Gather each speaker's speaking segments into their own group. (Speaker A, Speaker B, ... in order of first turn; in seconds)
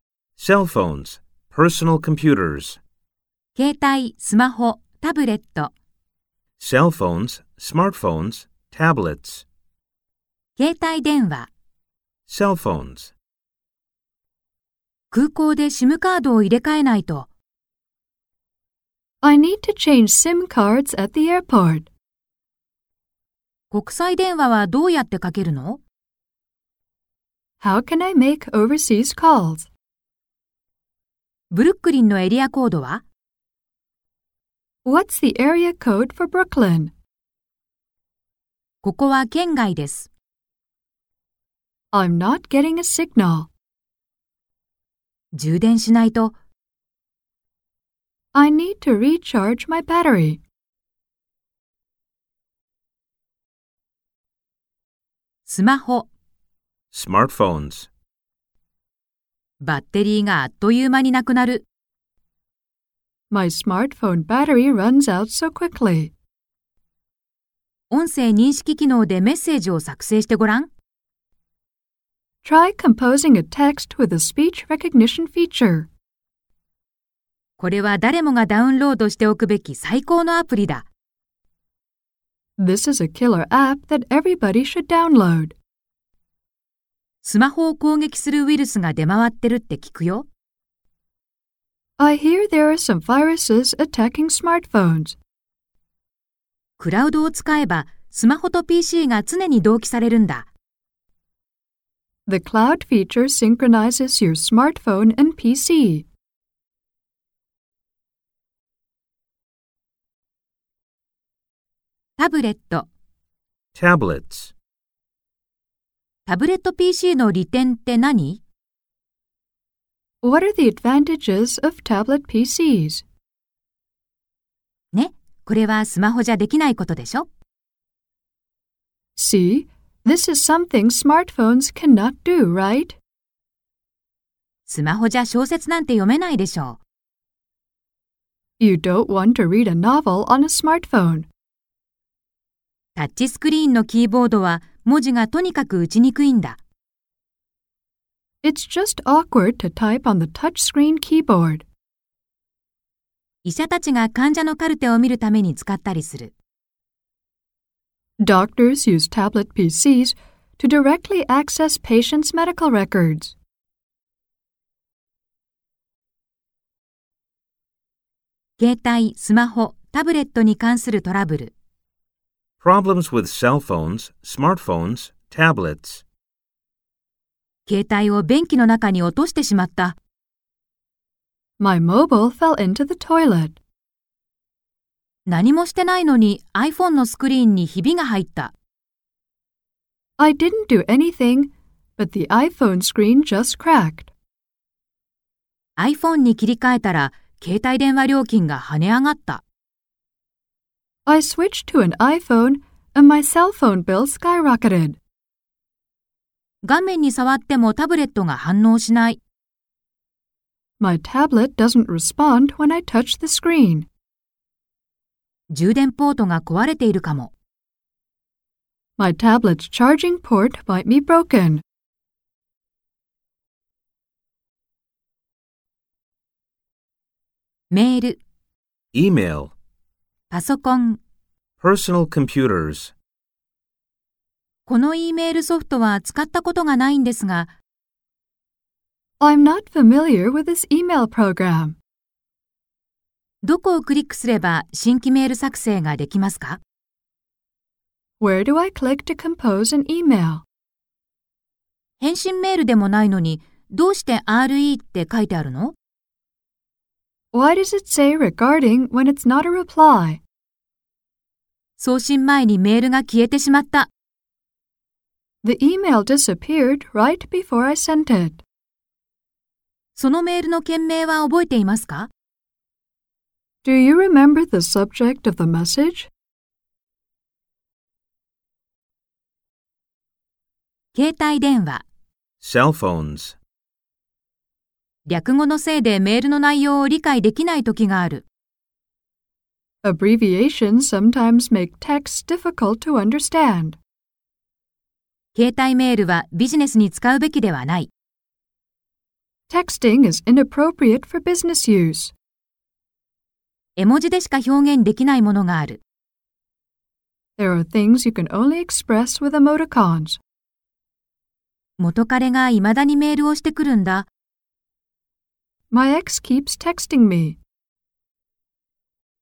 Speaker A: 0.4-2.8, 6.6-9.4, 12.3-13.1, 56.9-57.9, 113.7-114.5, 172.6-176.0, 228.9-229.5, 231.6-232.9, 282.4-283.4
Speaker B: 3.5-5.7, 10.6-11.5, 15.1-17.3, 23.7-25.8, 31.5-33.0, 38.8-40.1, 45.3-46.3, 55.5-56.1, 59.6-61.6, 67.9-70.7, 77.6-80.8, 87.2-90.3, 96.8-100.5, 112.2-112.9, 116.3-118.4, 124.9-127.3, 134.7-136.8, 142.9-146.6, 153.4-156.3, 168.6-171.5, 177.7-179.9, 185.3-188.5, 195.8-199.4, 206.6-209.2, 215.5-217.3, 227.7-228.2, 230.3-231.0, 234.7-237.5, 243.4-246.6, 252.0-255.8, 261.8-263.9, 269.9-272.1, 280.9-281.8, 285.1-288.2, 295.3-297.9, 303.8-305.8, 311.8-314.1
Speaker C: 19.2-21.9, 27.6-29.7, 34.8-36.9, 41.9-43.5, 48.3-50.4, 63.3-66.1, 72.4-75.9, 82.6-85.5, 92.0-95.2, 102.3-106.0, 120.2-123.0, 129.2-133.0, 138.6-141.3, 148.4-151.7, 158.2-163.3, 181.6-183.6, 190.2-194.1, 201.1-205.0, 210.8-213.9, 219.0-221.6, 239.2-241.8, 248.2-250.4, 257.3-260.2, 265.4-268.4, 273.6-276.1, 289.8-293.8, 299.5-302.1, 307.4-310.2, 315.7-317.4